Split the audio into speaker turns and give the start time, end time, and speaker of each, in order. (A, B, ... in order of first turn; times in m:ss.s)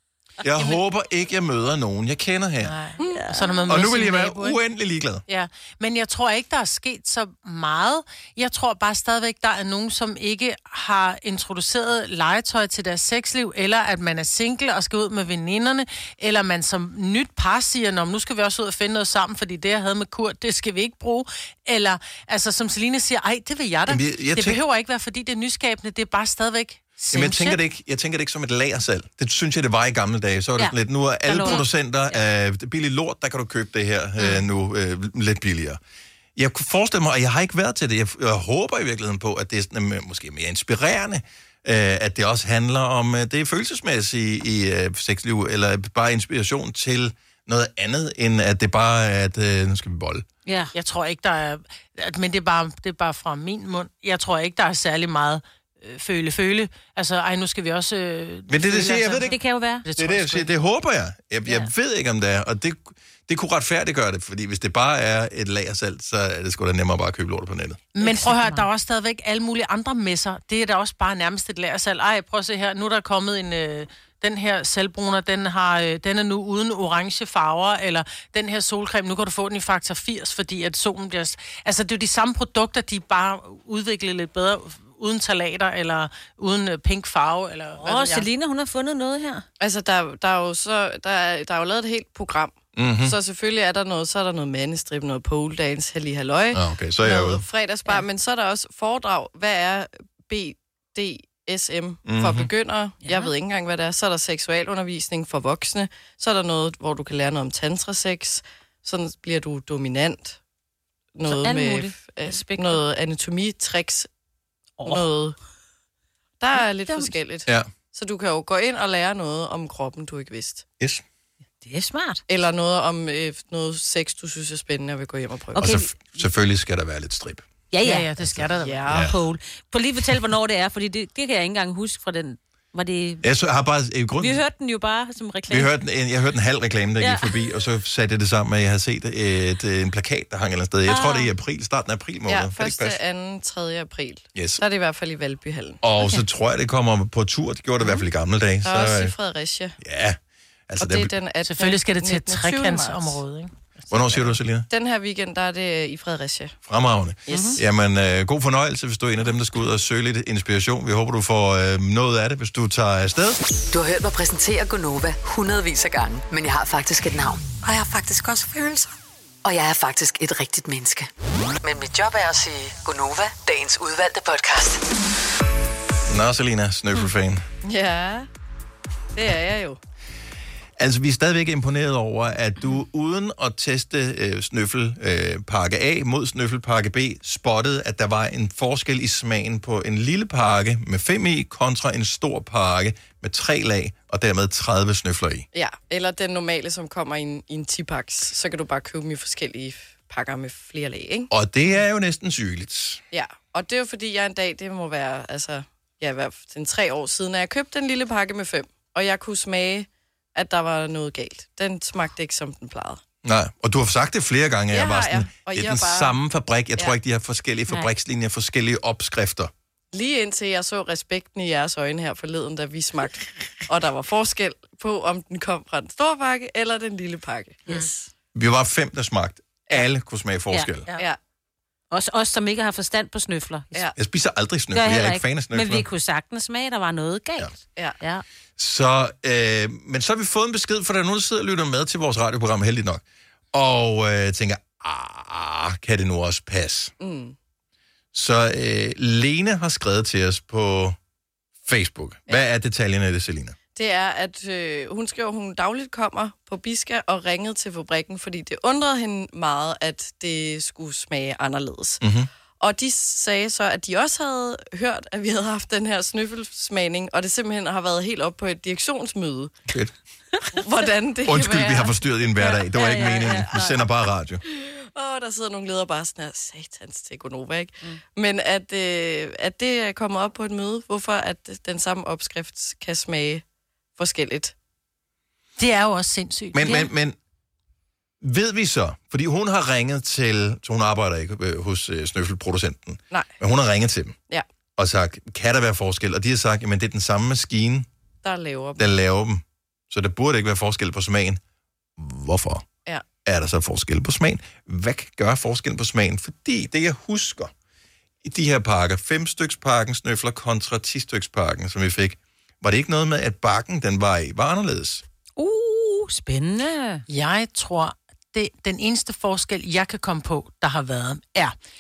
0:00.4-0:02.8 A
0:02.6-0:04.6 B
0:03.1-0:03.6 C
0:03.7-0:05.2 A
0:05.3-0:27.6 B
0:23.9-0:24.6 A
0:27.1-0:35.8 A
0:31.3-0:32.2 C
0:36.4-0:50.2 A
0:50.5-0:50.7 C
0:50.7-1:00.6 B
0:58.5-0:59.3 A
0:59.2-0:59.8 C
1:00.0-1:07.8 A
1:01.5-1:01.7 C
1:08.0-1:28.3 B
1:08.0-1:08.7 C
1:27.8-1:29.4 C
1:29.6-1:50.4 D
1:32.8-1:33.2 A
1:36.5-1:37.4 A
1:42.1-1:42.5 A
1:43.0-1:43.3 C
1:51.2-1:54.1 D
1:51.3-1:52.8 C
1:54.8-1:55.1 C
1:54.9-1:55.4 D
1:56.4-2:00.6 D
1:56.6-1:57.1 C
2:01.6-2:02.2 C
2:02.3-2:05.6 D
2:05.5-2:06.2 C
2:05.6-2:07.5 A
2:07.7-2:08.1 C
2:07.8-2:08.8 B
2:08.2-2:09.1 A
2:08.6-2:09.1 D
2:08.9-2:13.2 C
2:13.2-2:14.4 A
2:14.2-2:15.7 C
2:15.5-2:23.0 A
2:17.0-2:17.3 C
2:20.9-2:21.3 C
2:22.3-2:25.8 D
2:24.4-2:24.6 A
2:25.8-2:29.1 A
2:28.6-2:29.8 D
2:29.8-2:30.2 A
2:30.7-2:31.1 A
2:30.8-2:33.2 D
2:31.4-2:34.2 B
2:33.9-2:34.7 A
2:34.7-2:36.6 D
2:36.7-2:43.4 A
2:37.3-2:37.6 D
2:37.3-2:37.6 C
2:43.7-2:48.9 E
2:49.4-2:51.1 E
2:51.6-2:54.9 E
2:56.1-2:57.4 A
2:57.6-2:58.3 D
2:59.2-2:59.8 D
3:00.8-3:15.5 A
3:15.5-3:21.3 D
3:21.3-3:23.0 A
3:23.1-3:33.0 D
3:33.2-3:39.5 A
3:34.7-3:36.2 D
3:39.9-3:47.6 D
3:47.7-3:48.1 C
3:48.3-3:50.9 A
3:51.9-3:53.9 C
3:54.0-3:55.9 A
3:54.7-3:58.2 C
3:58.6-4:03.0 A
4:03.5-4:06.9 A
4:07.0-4:07.4 D
4:08.1-4:11.0 A
4:11.6-4:13.6 A
4:13.8-4:22.0 D
4:22.0-4:22.3 A
4:22.6-4:29.6 D
4:29.7-4:29.9 A
4:30.5-4:33.6 D
4:31.2-4:34.4 A
4:32.7-4:33.8 C
4:34.5-4:43.4 D
4:44.0-4:44.5 D
4:45.6-4:46.7 B
4:46.5-4:47.2 A
4:46.6-4:46.9 C
4:48.2-4:54.2 A
4:54.8-4:57.9 A
4:58.2-4:58.9 D
4:58.8-5:01.4 A
5:02.0-5:02.7 A
5:03.2-5:07.5 A
5:08.2-5:15.0 A
5:15.4-5:17.0 C
5:17.1-5:21.6 B